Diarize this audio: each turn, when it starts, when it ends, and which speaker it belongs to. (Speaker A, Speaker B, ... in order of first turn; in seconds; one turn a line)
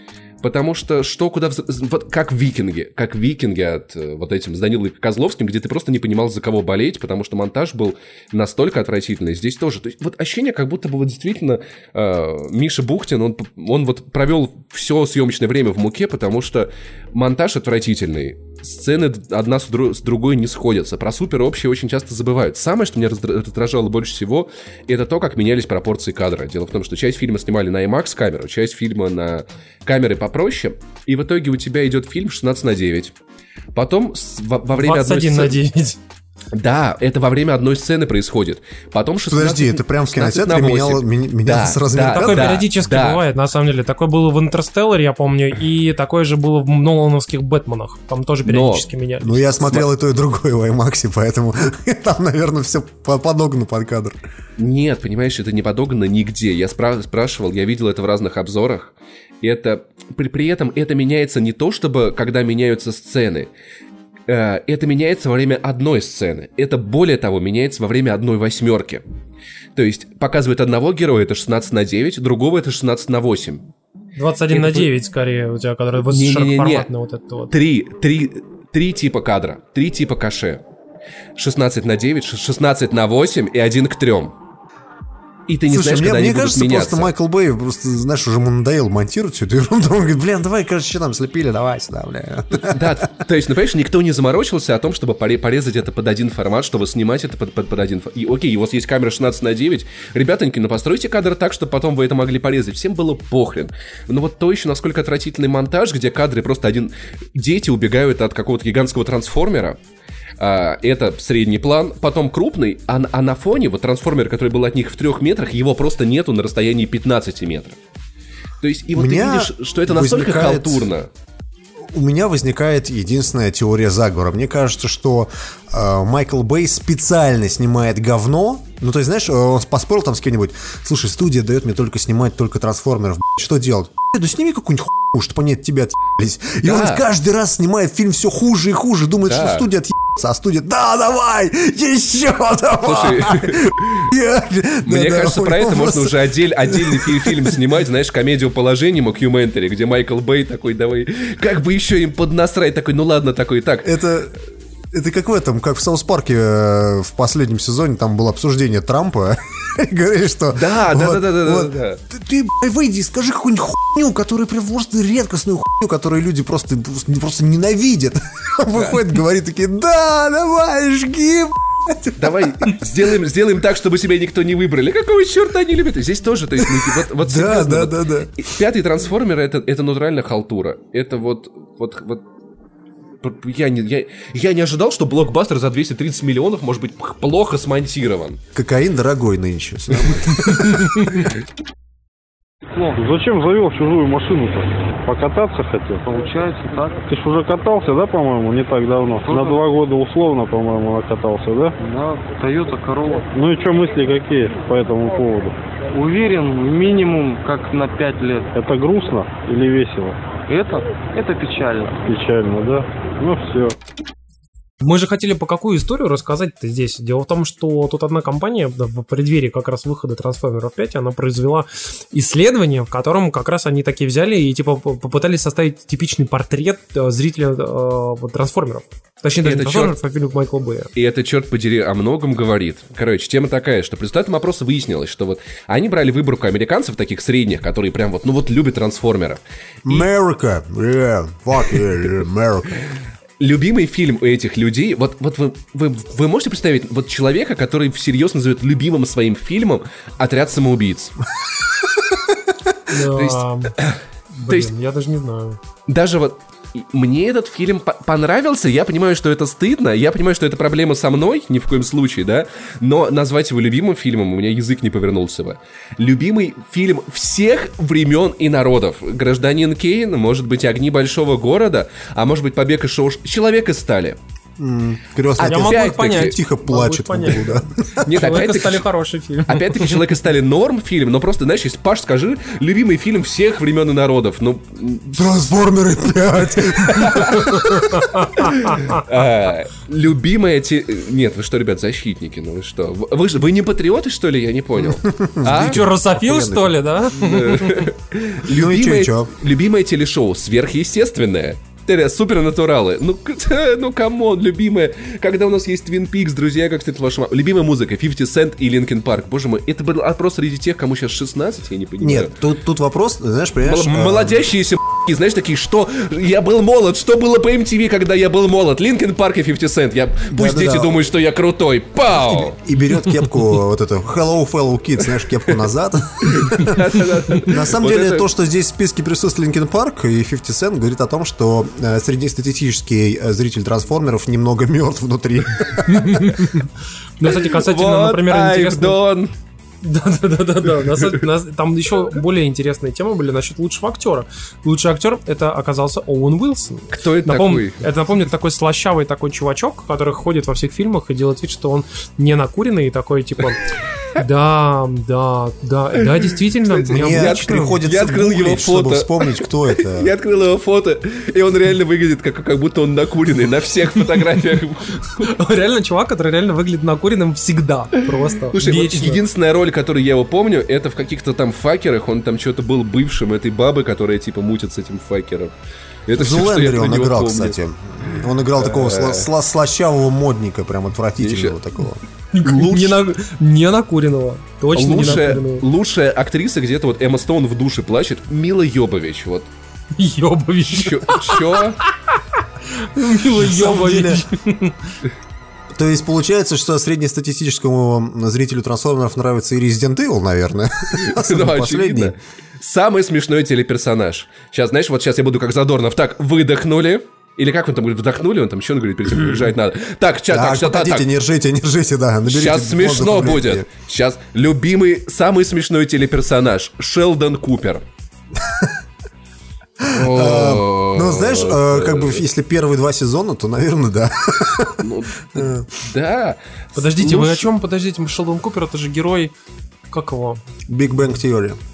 Speaker A: 0.4-33.1
Speaker A: 33.8-35.6
Speaker B: 34.8-36.0
Speaker A: 36.5-43.2
Speaker C: 39.3-42.6
Speaker B: 42.0-49.8
Speaker A: 48.5-48.9
Speaker C: 49.2-54.2
Speaker A: 54.6-63.5
Speaker A: 64.3-69.0
Speaker A: 69.8-73.6
Speaker B: 74.2-77.5
Speaker A: 74.5-74.9
Speaker A: 76.1-76.9
Speaker A: 77.5-80.6
Speaker A: 81.4-84.3
Speaker A: 85.5-87.1
Speaker C: 85.7-93.0
Speaker A: 92.7-109.8
Speaker A: 110.4-117.8
Speaker A: 118.6-121.1
Speaker C: 118.9-120.8
Speaker C: 121.9-146.2
Speaker A: 136.6-137.0
Speaker A: 139.2-139.7
Speaker A: 142.8-144.0
Speaker A: 144.9-153.9
Speaker C: 146.7-147.5
Speaker C: 153.8-154.3
Speaker C: 154.9-172.8
Speaker A: 160.5-162.0
Speaker A: 168.8-169.0
Speaker A: 172.2-182.2
Speaker C: 176.7-178.3
Speaker A: 183.2-188.4
Speaker C: 188.6-191.1
Speaker D: 193.0-196.1
Speaker E: 196.1-197.0
Speaker D: 197.1-201.8
Speaker E: 199.2-199.6
Speaker E: 201.8-203.3
Speaker D: 203.3-205.6
Speaker E: 205.9-208.5
Speaker D: 208.5-210.2
Speaker E: 210.5-212.0
Speaker D: 212.1-213.8
Speaker B: 214.8-230.9
Speaker A: 229.4-230.0
Speaker A: 230.9-240.1
Speaker C: 239.9-242.7
Speaker A: 243.4-251.2
Speaker B: 252.9-253.7
Speaker A: 253.1-254.7
Speaker B: 254.4-255.6
Speaker A: 255.9-274.2
Speaker C: 274.6-277.7
Speaker A: 275.4-276.4
Speaker B: 275.4-280.0
Speaker A: 278.1-278.9
Speaker A: 279.5-285.5
Speaker C: 285.1-287.6
Speaker A: 286.9-287.5
Speaker B: 287.2-289.0
Speaker A: 289.1-295.8
Speaker C: 294.8-296.8
Speaker B: 295.5-297.8
Speaker A: 297.2-312.3
Speaker C: 298.5-299.3
Speaker C: 312.0-314.4
Speaker A: 313.6-322.6
Speaker C: 320.3-321.0
Speaker C: 322.4-326.8
Speaker A: 326.3-328.3
Speaker C: 327.4-336.4
Speaker B: 335.9-336.6
Speaker B: 337.2-339.0
Speaker A: 337.2-339.3
Speaker B: 339.8-353.6
Speaker A: 346.9-347.8
Speaker B: 354.2-357.8
Speaker A: 356.7-365.3
Speaker C: 356.9-360.1
Speaker B: 365.2-369.2
Speaker A: 368.5-375.5
Speaker A: 376.1-377.6
Speaker C: 376.2-382.0
Speaker A: 378.6-379.3
Speaker A: 381.2-381.6
Speaker B: 382.3-385.6
Speaker A: 382.4-383.0
Speaker A: 384.8-389.5
Speaker B: 390.0-391.4
Speaker A: 390.7-391.8
Speaker B: 392.8-394.8
Speaker C: 393.4-394.2
Speaker C: 395.7-402.1
Speaker A: 401.0-411.1
Speaker C: 410.3-413.7
Speaker A: 412.3-417.8
Speaker C: 419.8-424.8
Speaker A: 419.9-422.2
Speaker A: 424.8-427.5
Speaker C: 425.4-425.7
Speaker B: 426.8-429.3
Speaker B: 429.9-430.4
Speaker C: 430.7-431.6